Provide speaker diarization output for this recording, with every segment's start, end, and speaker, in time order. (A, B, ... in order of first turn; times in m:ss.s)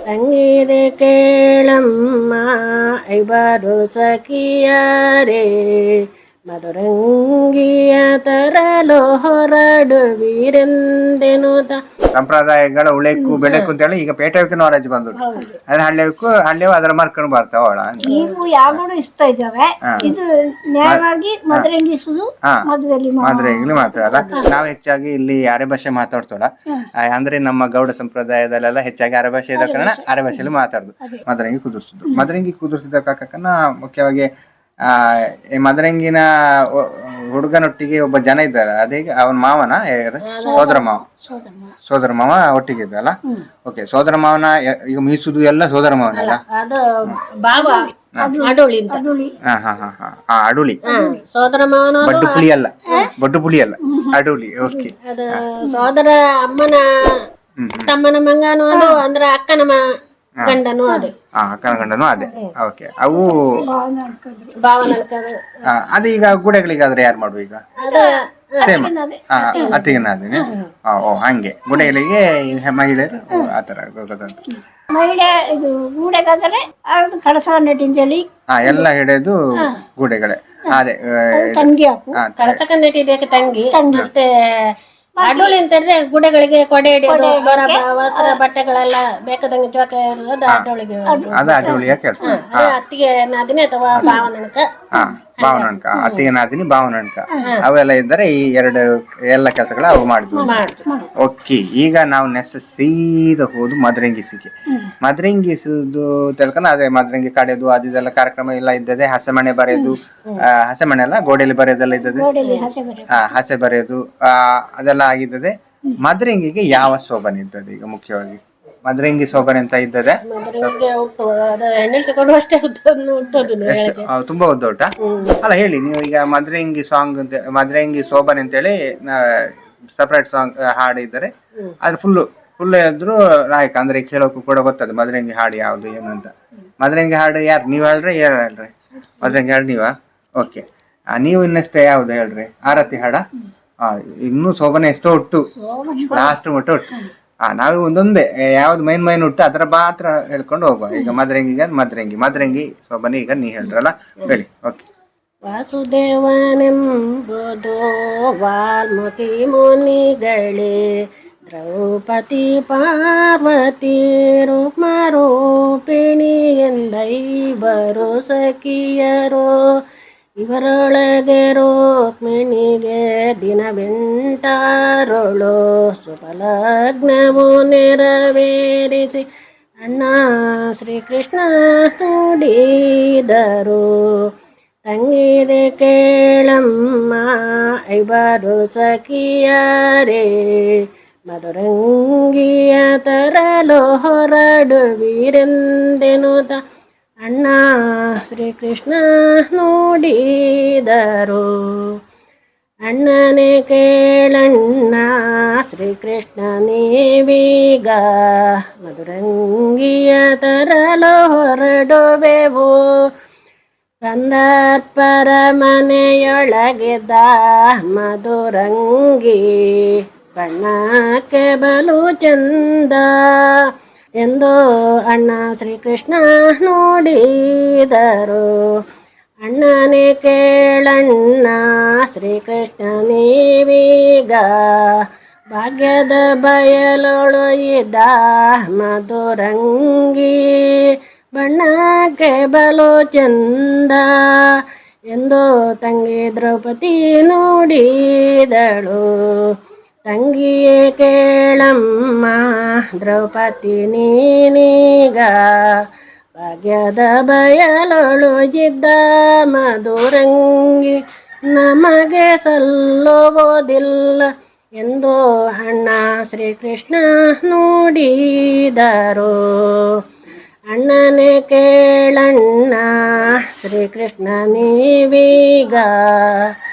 0:00.1-0:02.5 A
0:03.1-0:11.8 A
0:12.1-0:18.1 B
0:13.2-0:13.4 C
0:13.5-0:13.7 A
0:15.2-0:15.5 A
0:18.0-0:24.4 C
0:18.1-0:18.4 A
0:20.8-0:21.7 B
0:23.2-0:26.5 B
0:27.1-0:34.3 B
0:29.6-0:30.4 C
0:34.9-0:41.0 B
0:40.2-0:40.7 A
0:40.4-0:41.7 C
0:41.9-0:46.4 B
0:46.1-0:49.0 A
0:47.5-0:49.3 C
0:49.5-0:50.8 B
0:50.8-0:53.1 A
0:50.9-0:51.2 C
0:52.0-0:55.4 B
0:53.9-0:54.2 C
0:55.0-0:56.8 A
0:57.6-0:57.9 B
0:57.9-0:59.8 A
0:58.7-0:59.0 C
1:00.4-1:01.1 A
1:01.4-1:03.4 B
1:03.1-1:04.9 C
1:04.6-1:05.5 A
1:05.7-1:07.6 B
1:07.8-1:08.8 A
1:08.6-1:09.8 C
1:08.6-1:14.4 B
1:09.5-1:09.9 A
1:14.5-1:18.8 C
1:18.5-1:21.7 B
1:21.3-1:22.2 C
1:22.2-1:22.6 B
1:22.4-1:24.2 A
1:23.7-1:24.1 C
1:25.2-1:25.6 C
1:25.2-1:34.7 A
1:27.1-1:28.4 C
1:31.1-1:32.4 C
1:31.3-1:32.7 B
1:33.9-1:34.2 B
1:35.0-1:40.5 B
1:35.4-1:36.3 A
1:40.3-1:41.1 C
1:40.4-1:40.8 A
1:41.2-1:44.5 B
1:45.0-1:52.2 B
1:52.1-1:53.3 C
1:52.4-1:52.7 A
1:53.1-2:00.7 B
2:00.3-2:04.1 A
2:03.4-2:04.9 B
2:05.0-2:05.4 A
2:05.4-2:11.3 B
2:11.8-2:16.3 B
2:16.8-2:20.6 B
2:21.2-2:23.2 B
2:23.8-2:25.4 B
2:25.5-2:26.4 C
2:26.1-2:26.9 B
2:27.4-2:34.8 B
2:35.5-2:37.9 A
2:38.4-2:40.8 A
2:41.5-2:49.5 A
2:50.4-2:59.2 A
2:59.8-3:00.2 A
3:00.8-3:04.2 A
3:04.8-3:16.6 A
3:17.2-3:17.6 A
3:18.2-3:21.9 A
3:22.9-3:25.1 A
3:25.6-3:32.8 A
3:34.0-3:43.5 A
3:44.2-3:44.6 A
3:45.1-3:48.5 A
3:49.4-3:55.0 A
3:55.5-4:00.7 A
4:01.4-4:04.1 A
4:05.1-4:09.0 A
4:10.1-4:12.4 A
4:13.0-4:15.8 A
4:16.4-4:21.0 A
4:21.5-4:29.9 A
4:30.7-4:32.9 A
4:33.6-4:36.5 A